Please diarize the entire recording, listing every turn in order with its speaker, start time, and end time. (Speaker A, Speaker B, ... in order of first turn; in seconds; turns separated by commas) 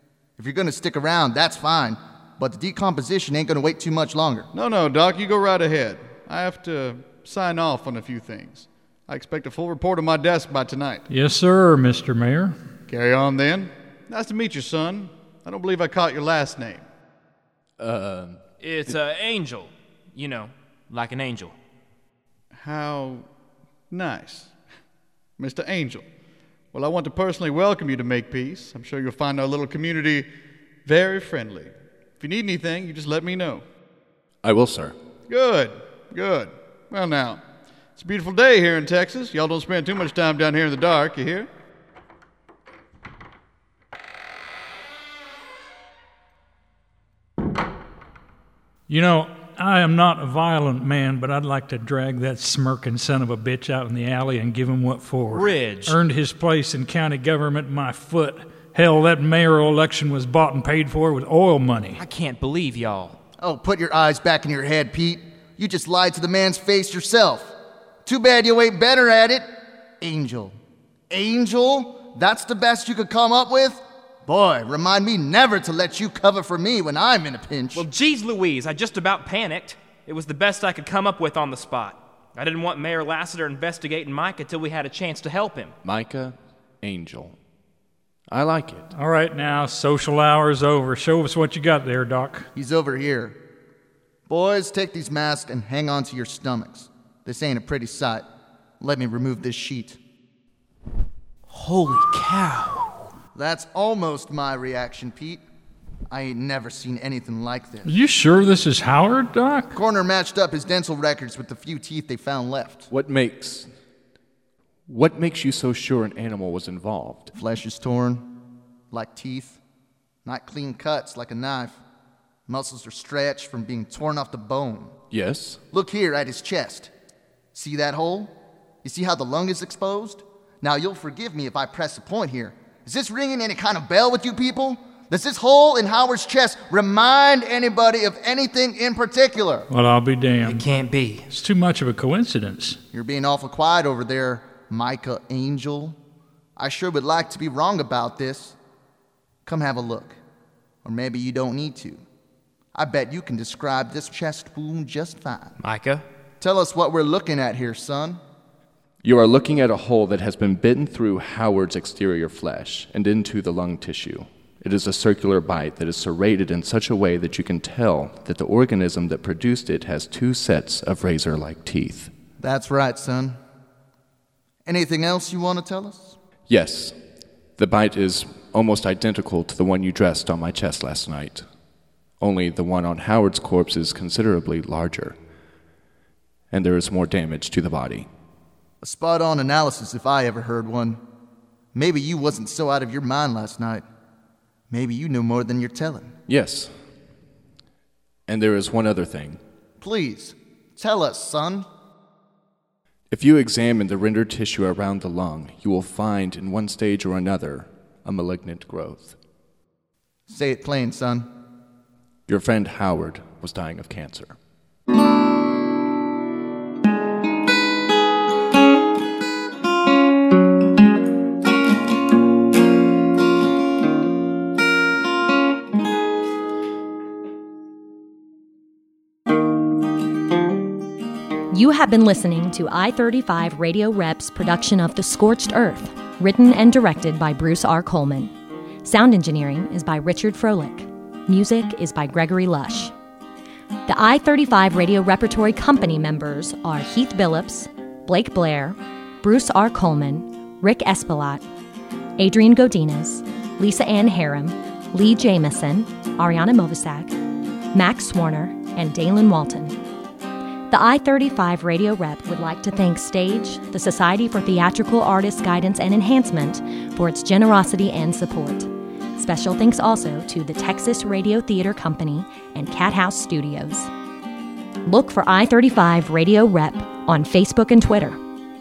Speaker A: 0.4-4.5, Speaker B: 4.5-11.1, Speaker C: 11.1-12.6, Speaker B: 12.9-16.9, Speaker D: 17.8-18.9, Speaker E: 18.6-21.6, Speaker B: 22.6-23.3, Speaker B: 23.9-24.5, Speaker B: 25.4-26.1, Speaker B: 26.7-30.3, Speaker B: 30.9-33.6, Speaker D: 34.4-35.0, Speaker B: 35.3-37.4, Speaker B: 38.0-41.5, Speaker C: 48.9-62.0, Speaker E: 55.3-56.0, Speaker E: 62.0-63.2, Speaker A: 63.4-67.5, Speaker A: 68.0-69.5, Speaker A: 70.0-70.5, Speaker A: 71.1-77.9, Speaker E: 77.8-85.7, Speaker D: 85.8-87.4, Speaker D: 88.3-88.9, Speaker C: 88.9-92.5, Speaker A: 92.5-93.4, Speaker A: 94.3-98.2, Speaker A: 98.8-100.0, Speaker E: 101.5-103.0, Speaker A: 103.3-105.4, Speaker A: 106.1-107.9, Speaker C: 107.8-109.8, Speaker A: 109.7-112.9, Speaker D: 112.9-113.7, Speaker D: 114.9-117.3, Speaker A: 117.3-118.3, Speaker A: 118.9-119.6, Speaker A: 120.2-121.8, Speaker A: 122.5-125.0, Speaker D: 125.1-125.6, Speaker A: 125.7-126.9, Speaker A: 127.5-128.3, Speaker A: 128.8-139.7, Speaker C: 139.7-140.7, Speaker E: 140.4-141.3, Speaker C: 141.3-142.8, Speaker A: 142.9-146.0, Speaker A: 146.6-148.6, Speaker A: 149.4-150.2, Speaker A: 150.8-152.0, Speaker A: 152.8-155.6, Speaker E: 155.6-156.0, Speaker A: 156.4-158.2, Speaker D: 159.0-172.1, Speaker A: 172.4-173.4, Speaker A: 174.7-176.2, Speaker D: 176.5-177.0, Speaker D: 177.6-181.4, Speaker D: 182.2-185.2, Speaker D: 186.5-188.1, Speaker A: 188.8-191.0, Speaker A: 191.8-193.8, Speaker A: 194.7-196.2, Speaker D: 196.3-196.7, Speaker D: 198.3-199.4, Speaker A: 199.8-201.7, Speaker D: 203.1-209.2, Speaker A: 210.3-211.3, Speaker D: 212.3-214.4, Speaker F: 231.5-238.3, Speaker F: 238.8-242.9, Speaker F: 243.9-251.4, Speaker F: 252.2-257.1, Speaker F: 257.7-259.8, Speaker F: 260.7-273.9, Speaker F: 274.9-278.2